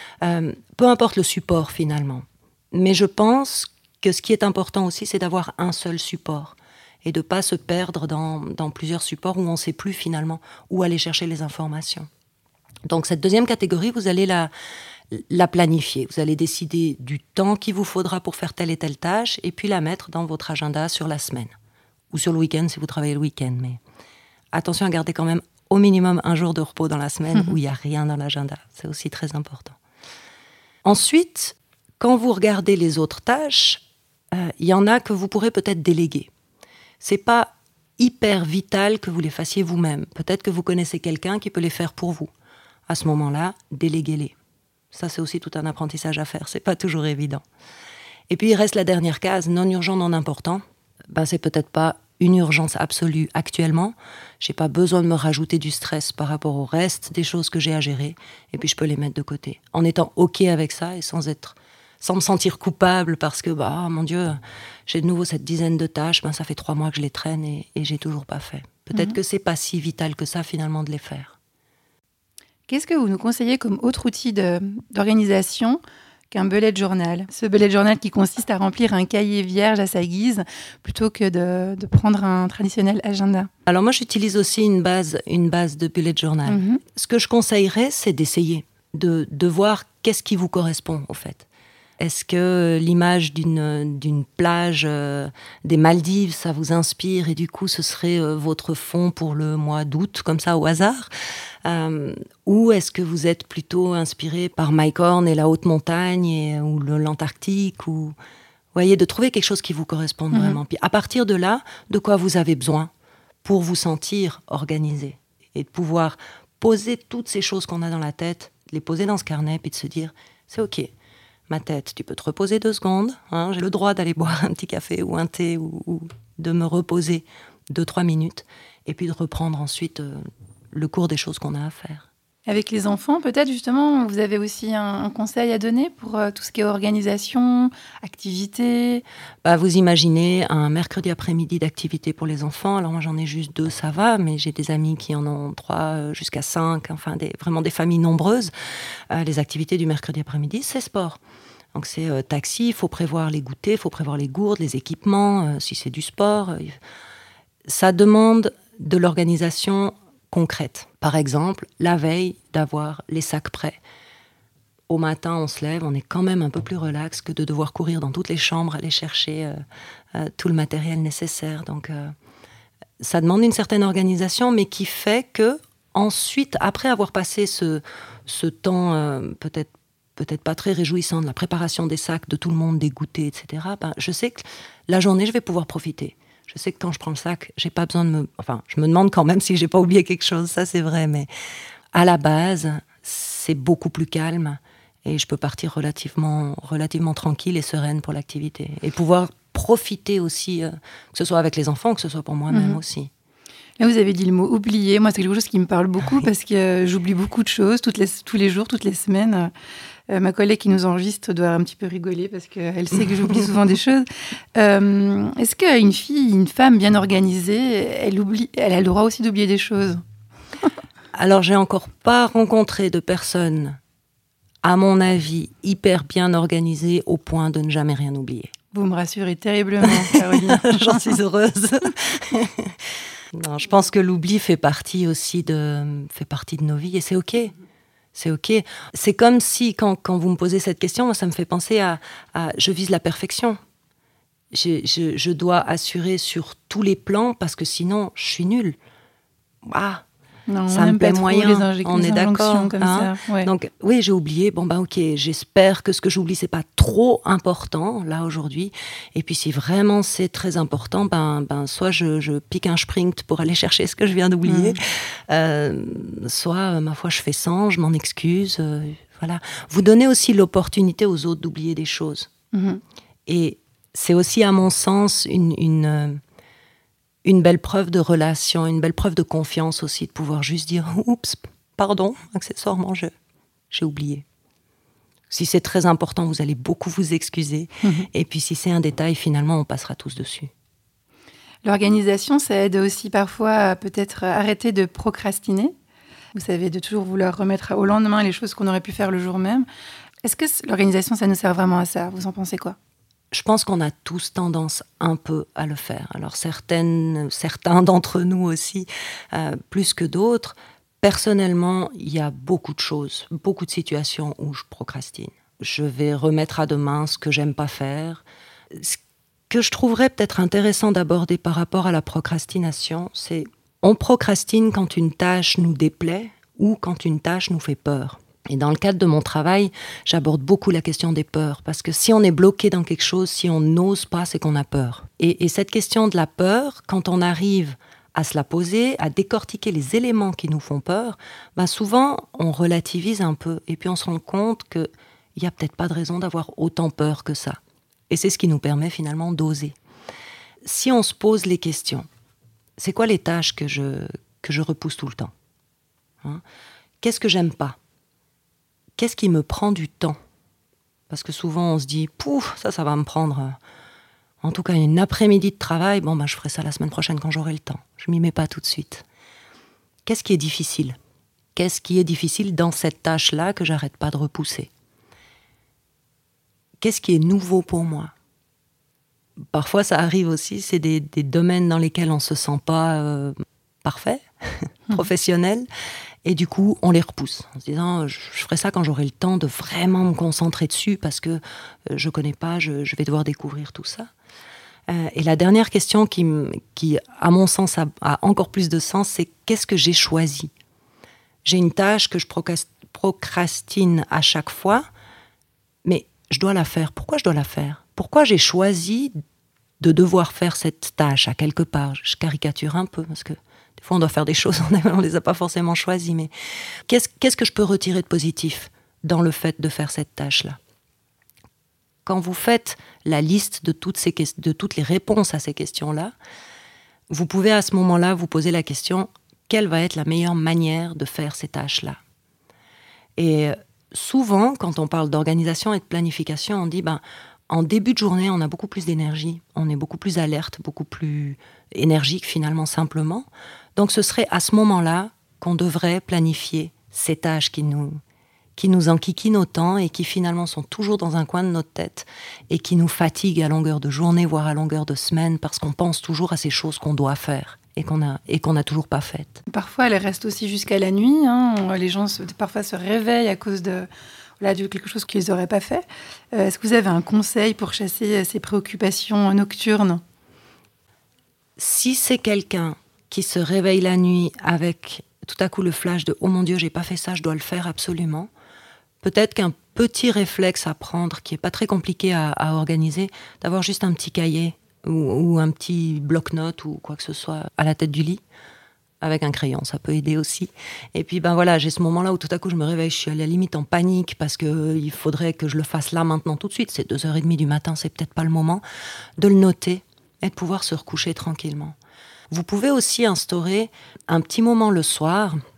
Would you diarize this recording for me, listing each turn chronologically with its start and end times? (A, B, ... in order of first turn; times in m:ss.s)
0:00.2-0:12.1 A
0:12.8-0:14.5 A
0:15.1-0:21.5 A
0:22.1-0:23.8 A
0:24.5-0:29.8 A
0:30.8-0:36.3 A
0:37.0-0:42.3 A
0:42.9-0:44.3 A
0:44.9-0:47.4 A
0:48.3-1:11.4 A
1:12.7-1:23.5 B
1:23.6-1:31.5 A
1:26.4-1:26.8 B
1:32.0-1:41.1 A
1:41.6-1:48.1 A
1:48.7-1:52.9 A
1:50.3-1:50.6 B
1:53.4-2:00.9 A
2:01.5-2:10.2 A
2:10.7-2:12.1 A
2:12.4-2:19.0 B
2:19.4-2:28.5 A
2:29.1-2:31.2 A
2:31.7-2:36.8 A
2:37.6-2:43.8 A
2:44.9-2:49.6 A
2:50.1-2:52.1 A
2:53.0-3:11.3 A
3:11.9-3:23.1 A
3:22.5-3:22.8 B
3:23.8-3:29.5 B
3:30.1-3:40.0 B
3:41.1-3:43.8 A
3:44.6-3:48.5 A
3:48.7-3:51.2 B
3:49.8-3:52.8 A
3:53.3-3:57.5 A
3:58.1-4:03.6 A
4:04.5-4:08.8 A
4:09.6-4:10.0 A
4:10.5-4:13.5 B
4:10.7-4:32.3 A
4:24.4-4:24.8 B
4:32.5-4:32.8 B
4:33.3-4:36.2 A
4:37.2-4:43.1 A
4:43.7-4:44.2 A
4:45.3-4:50.5 A
4:51.6-4:55.7 B
4:56.3-4:59.6 B
5:00.2-5:02.8 B
5:03.3-5:19.0 A
5:19.5-5:47.6 A
5:48.1-5:49.8 A
5:50.6-5:52.0 A
5:52.8-5:55.3 A
5:57.0-5:57.8 A
5:59.0-6:00.2 A
6:01.1-6:03.6 A
6:04.4-6:09.0 A
6:10.0-6:11.0 A
6:11.5-6:14.7 A
6:16.8-6:18.1 A
6:19.5-6:25.7 A
6:26.2-6:34.1 A
6:34.9-6:40.5 A
6:41.4-6:44.8 A
6:45.8-6:49.1 A
6:49.8-6:56.3 A
6:56.9-7:00.6 A
7:02.0-7:06.1 A
7:07.1-7:12.0 A
7:13.2-7:28.0 A
7:28.6-7:39.4 A
7:39.5-7:43.9 B
7:44.4-7:50.0 B
7:51.6-7:58.3 A
7:59.0-8:08.2 A
8:09.0-8:18.6 A
8:19.2-8:21.8 A
8:22.3-8:25.4 A